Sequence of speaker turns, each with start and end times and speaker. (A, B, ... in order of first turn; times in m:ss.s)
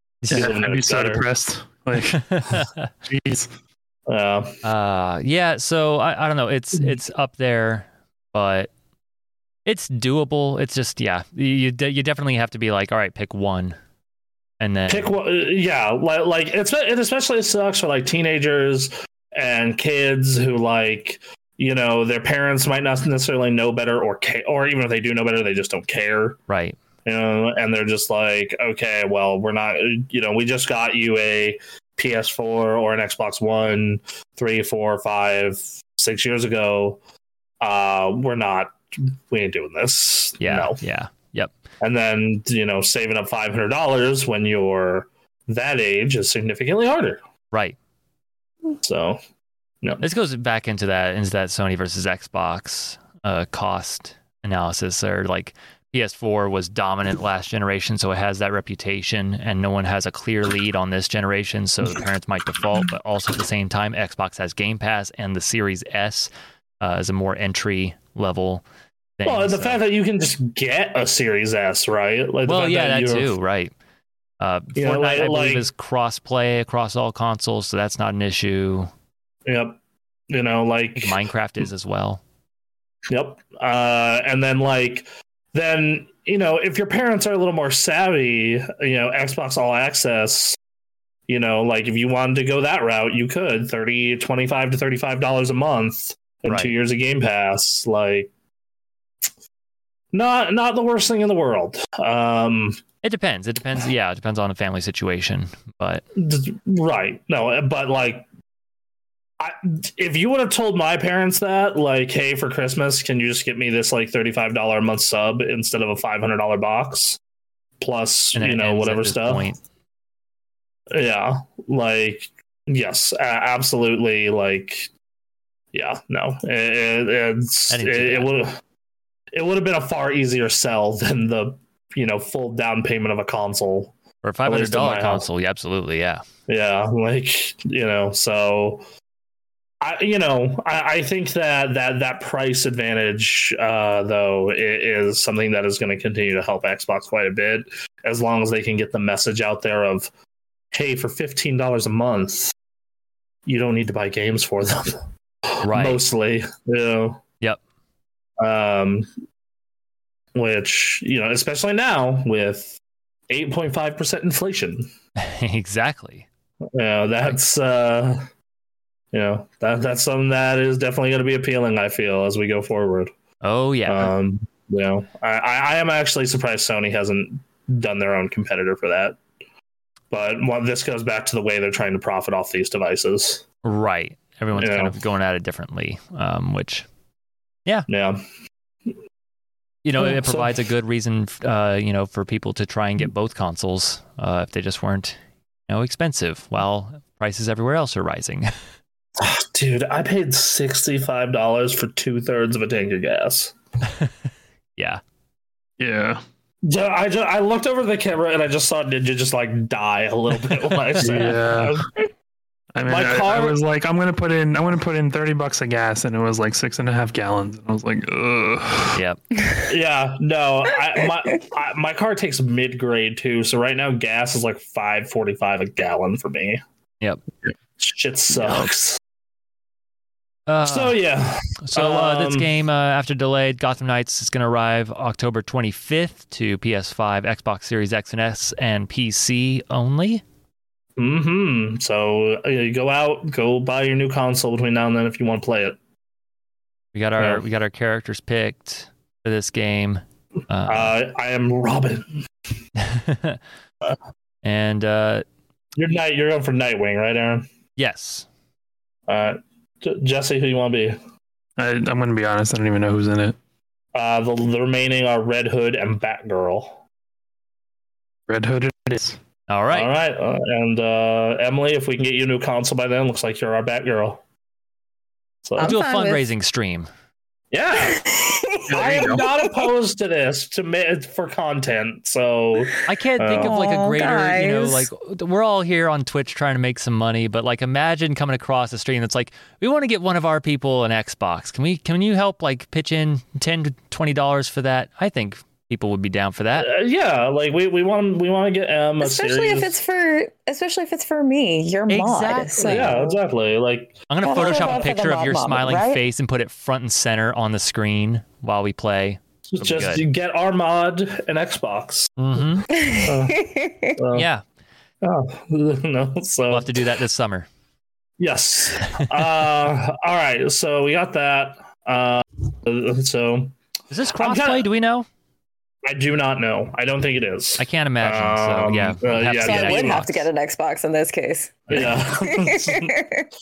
0:00.2-0:00.5 A
0:00.3-0:01.2 B
0:00.3-0:03.5 C
0:02.0-0:02.9 A
0:04.1-0:04.6 B
0:04.6-0:08.7 A
0:09.6-0:13.8 A
0:14.6-0:15.1 A
0:14.9-0:26.4 B
0:26.5-0:26.8 A
0:27.0-0:37.0 B
0:37.6-0:40.8 B
0:40.4-0:41.5 A
0:41.8-0:47.2 B
0:47.5-0:47.8 A
0:48.8-0:49.2 B
0:50.0-1:08.6 A
1:09.2-1:09.8 A
1:09.2-1:13.3 B
1:12.4-1:13.7 A
1:14.4-1:18.9 A
1:14.8-1:15.6 B
1:19.4-1:19.8 B
1:20.3-1:21.2 B
1:21.0-1:22.2 A
1:23.1-1:30.6 B
1:31.3-1:38.3 B
1:36.5-1:36.7 A
1:40.1-1:42.8 B
1:43.0-1:46.0 A
1:46.2-1:48.2 B
1:49.4-1:57.2 B
1:57.8-1:59.5 B
1:58.3-1:59.6 A
2:00.9-2:04.9 B
2:05.7-2:08.6 B
2:07.7-2:08.3 A
2:09.3-2:15.2 B
2:14.2-2:16.2 A
2:16.5-2:18.8 B
2:19.8-2:30.1 B
2:30.7-2:32.5 B
2:33.4-2:37.2 B
2:35.6-2:36.0 A
2:38.4-2:39.1 B
2:40.3-2:42.8 B
2:43.3-2:44.9 B
2:45.2-2:46.3 A
2:46.7-2:48.3 B
2:49.1-2:53.1 B
2:53.4-2:54.1 A
2:53.9-2:59.2 B
3:00.1-3:03.4 B
3:03.6-3:06.9 A
3:04.5-3:05.0 B
3:07.9-3:08.2 B
3:09.8-3:18.5 A
3:10.0-3:10.6 B
3:19.2-3:23.5 B
3:24.8-3:25.0 A
3:25.8-3:26.2 C
3:26.6-3:31.9 B
3:31.0-3:31.8 C
3:32.7-3:39.0 C
3:32.8-3:33.6 B
3:38.9-3:39.2 A
3:39.4-3:39.6 D
3:39.7-3:46.6 B
3:47.8-3:49.0 B
3:50.5-3:51.0 A
3:50.6-3:52.5 B
3:51.6-4:00.2 A
4:01.0-4:05.8 B
4:06.9-4:11.0 A
4:07.2-4:07.4 B
4:10.7-4:12.2 B
4:12.8-4:13.4 A
4:14.4-4:15.2 A
4:15.7-4:17.5 B
4:17.8-4:18.3 A
4:19.1-4:21.0 B
4:21.6-4:23.4 C
4:23.9-4:26.8 B
4:28.3-4:29.2 C
4:29.5-4:29.9 A
4:29.7-4:34.2 B
4:35.4-4:35.8 B
4:35.6-4:36.2 D
4:35.6-4:36.9 A
4:37.5-4:38.0 B
4:37.7-4:39.7 D
4:38.7-4:39.2 C
4:38.7-4:43.5 B
4:42.9-4:56.7 A
4:43.3-4:44.9 D
4:56.6-4:59.8 B
4:59.0-5:03.1 D
5:01.9-5:02.9 A
5:02.6-5:04.9 B
5:04.1-5:10.0 A
5:04.2-5:06.0 D
5:09.5-5:12.4 B
5:12.2-5:12.7 A
5:12.7-5:14.0 D
5:13.0-5:13.4 B
5:14.0-5:14.2 B
5:14.1-5:14.4 A
5:15.0-5:16.7 B
5:16.5-5:17.5 A
5:18.2-5:23.6 B
5:18.8-5:19.1 A
5:23.9-5:25.0 A
5:24.2-5:24.6 B
5:25.8-5:30.1 B
5:27.6-5:30.3 A
5:29.4-5:33.2 D
5:31.7-5:32.9 B